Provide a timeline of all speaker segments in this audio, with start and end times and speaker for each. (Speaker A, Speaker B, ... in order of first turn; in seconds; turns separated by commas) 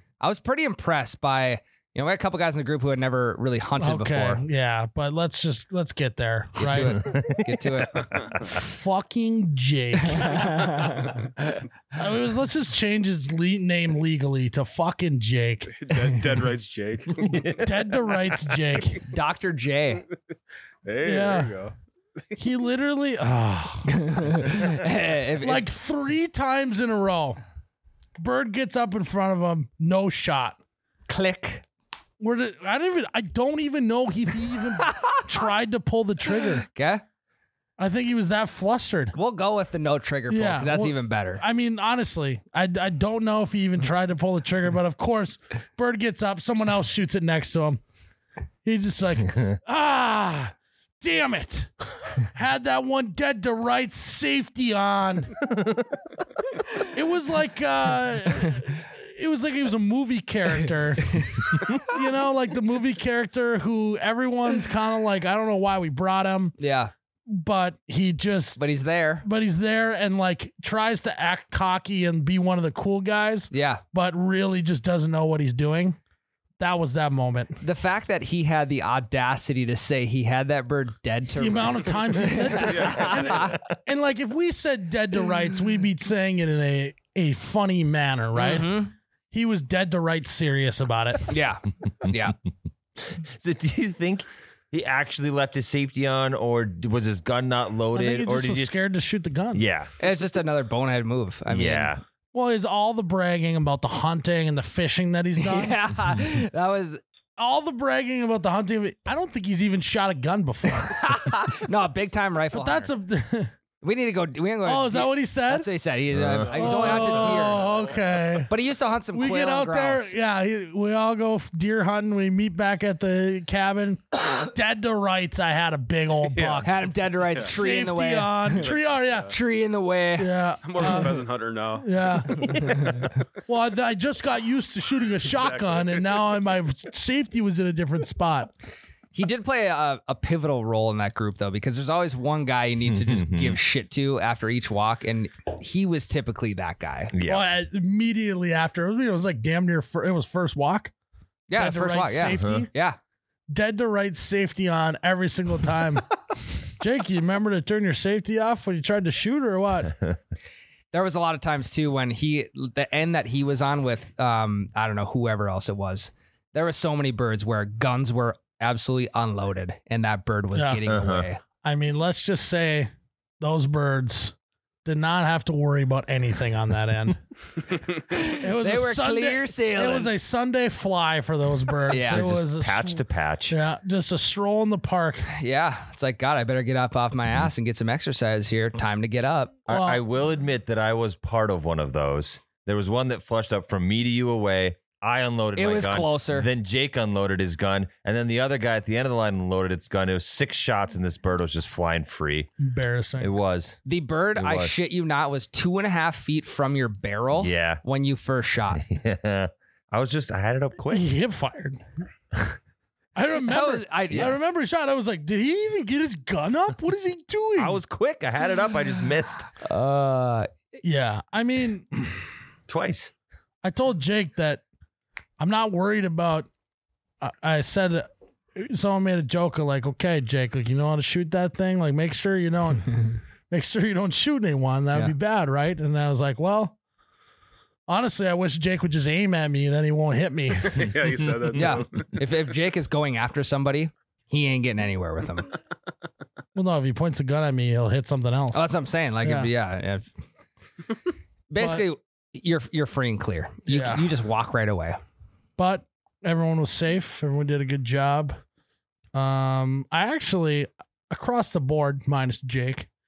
Speaker A: 0.2-4.4, Speaker B: 3.8-7.0, Speaker A: 6.6-8.3, Speaker C: 6.7-7.4, Speaker B: 8.4-10.9, Speaker A: 10.2-11.0, Speaker B: 11.9-15.7, Speaker D: 15.7-17.6, Speaker C: 17.3-17.6, Speaker B: 17.6-19.0, Speaker A: 19.1-20.0, Speaker D: 20.8-21.7, Speaker B: 21.0-21.5, Speaker B: 22.4-24.0, Speaker A: 23.9-25.7, Speaker B: 25.4-27.4, Speaker B: 28.2-30.6, Speaker A: 31.1-31.6, Speaker B: 32.2-36.6, Speaker A: 34.8-35.2, Speaker A: 36.3-37.0, Speaker B: 37.8-39.1, Speaker A: 39.1-41.4, Speaker B: 40.3-47.8, Speaker B: 48.6-55.4, Speaker B: 56.7-66.5, Speaker A: 66.6-66.9, Speaker B: 67.3-68.6, Speaker A: 68.6-69.2, Speaker B: 69.2-76.0, Speaker A: 73.5-73.8, Speaker B: 76.6-77.6, Speaker A: 77.6-83.5, Speaker B: 81.3-88.8, Speaker D: 82.6-83.5, Speaker A: 88.3-88.9, Speaker B: 89.3-91.3, Speaker A: 91.3-92.3, Speaker C: 93.0-98.8, Speaker B: 97.9-99.6, Speaker C: 99.5-99.9, Speaker A: 100.0-101.9, Speaker C: 101.5-102.0, Speaker B: 102.3-105.8, Speaker A: 105.4-107.0, Speaker B: 107.4-111.4, Speaker A: 110.8-112.9, Speaker B: 112.5-113.5, Speaker A: 113.8-117.6, Speaker B: 114.6-115.7, Speaker C: 116.1-116.5, Speaker D: 116.5-118.1, Speaker B: 116.5-118.5, Speaker A: 118.5-120.1, Speaker B: 119.1-126.7, Speaker D: 126.2-126.7, Speaker A: 126.6-128.6, Speaker D: 127.3-127.5, Speaker B: 127.5-129.3, Speaker D: 128.6-129.3, Speaker A: 129.3-130.3, Speaker B: 130.2-131.2, Speaker D: 130.6-133.1, Speaker B: 131.8-132.5, Speaker B: 133.4-138.5, Speaker D: 135.2-136.1, Speaker A: 139.1-147.1, Speaker C: 142.8-143.6, Speaker C: 147.1-147.5, Speaker B: 147.2-150.9, Speaker B: 151.5-152.7, Speaker A: 151.5-153.0, Speaker C: 152.3-152.6, Speaker B: 153.5-156.1, Speaker B: 156.8-159.9, Speaker A: 160.9-171.4, Speaker B: 170.5-170.8, Speaker C: 170.9-171.2, Speaker B: 171.6-177.2, Speaker A: 178.1-180.1, Speaker B: 178.2-185.3, Speaker A: 181.9-182.3, Speaker C: 182.0-183.6, Speaker A: 185.3-189.6, Speaker C: 189.7-202.5, Speaker B: 189.7-190.0, Speaker A: 195.6-196.5, Speaker B: 202.6-203.3, Speaker C: 203.2-203.8, Speaker A: 203.8-208.8, Speaker C: 204.3-204.7, Speaker C: 207.3-207.8, Speaker C: 208.7-211.1, Speaker B: 210.9-211.8, Speaker B: 213.1-217.8, Speaker A: 213.4-214.4, Speaker C: 217.6-219.5, Speaker A: 219.6-220.5, Speaker B: 220.8-222.2, Speaker C: 222.7-223.1, Speaker B: 223.6-224.6, Speaker B: 225.4-226.5, Speaker B: 227.2-233.0, Speaker B: 233.5-236.7, Speaker B: 237.9-240.9, Speaker D: 240.7-242.1, Speaker A: 241.5-245.5, Speaker B: 246.5-248.7, Speaker A: 248.5-250.0, Speaker B: 249.2-249.5, Speaker A: 251.5-255.0, Speaker B: 251.6-251.8, Speaker B: 253.7-254.1, Speaker B: 255.6-258.4, Speaker B: 259.1-262.9